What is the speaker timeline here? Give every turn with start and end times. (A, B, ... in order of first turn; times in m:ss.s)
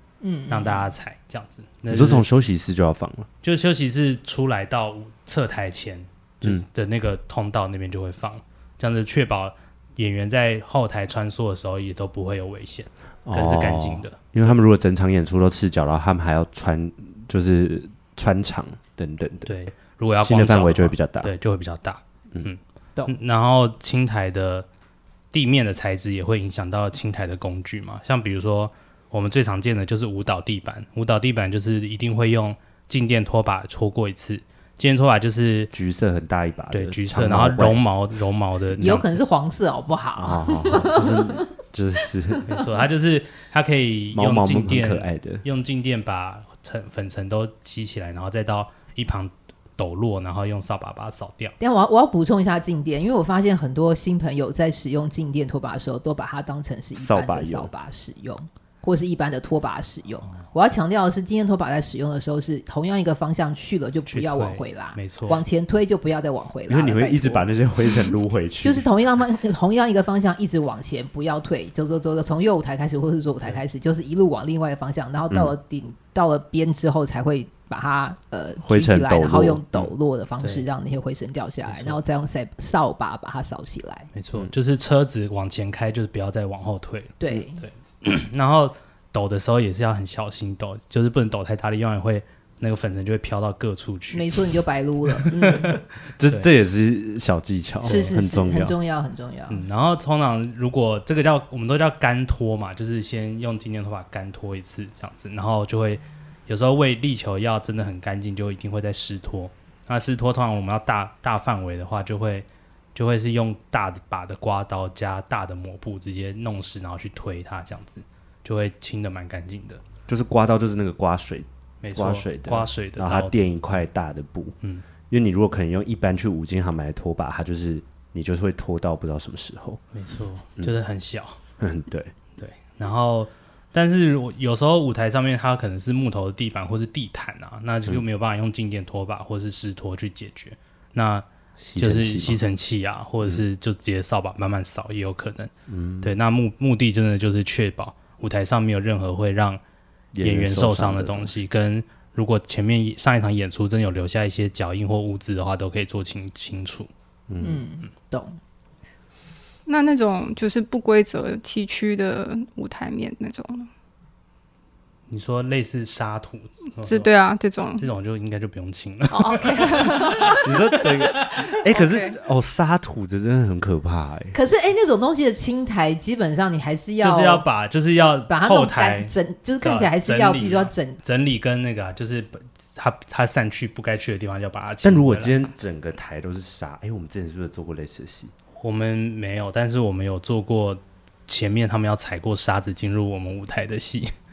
0:00.2-0:00.9 A
0:00.5-0:02.3 B
0:01.9-0:03.3 C
0:03.4-0:14.2 B
0:13.3-0:19.5 C
0:19.5-0:24.7 B
0:20.2-0:21.3 C
0:25.3-0:35.7 B
0:35.7-0:37.8 C
0:36.7-0:39.0 B
0:38.7-0:39.2 C
0:38.8-0:41.5 A
0:40.2-0:42.5 C
0:42.5-0:51.6 B
0:44.1-0:45.4 C
0:51.6-1:08.1 A
0:57.0-0:57.7 C
1:04.1-1:05.4 B
1:06.7-1:08.9 C
1:08.6-1:24.1 A
1:15.3-1:15.6 C
1:18.6-1:19.9 C
1:20.4-1:20.7 B
1:21.6-1:22.0 B
1:24.1-1:34.4 B
1:27.2-1:27.6 A
1:34.1-1:35.7 A
1:35.3-1:36.5 B
1:35.4-1:38.8 C
1:37.8-1:39.7 A
1:39.5-1:59.8 B
2:00.1-2:04.6 C
2:01.8-2:03.4 B
2:05.1-2:09.8 C
2:09.9-2:11.4 B
2:11.6-2:12.1 C
2:12.4-2:21.2 B
2:21.6-2:22.4 C
2:21.8-2:25.5 B
2:25.7-2:26.2 C
2:26.0-2:29.6 B
2:30.1-2:31.4 C
2:30.2-2:36.9 B
2:37.3-2:37.6 C
2:37.4-2:38.4 A
2:39.7-2:43.7 D
2:45.1-2:47.1 B
2:46.8-2:47.9 D
2:47.8-2:50.4 B
2:49.1-2:50.4 D
2:50.4-2:54.4 C
2:51.0-2:51.4 B
2:51.7-2:52.2 D
2:54.3-2:57.4 A
2:57.0-3:05.5 B
2:58.3-3:01.0 A
3:04.8-3:08.3 C
3:08.6-3:14.1 B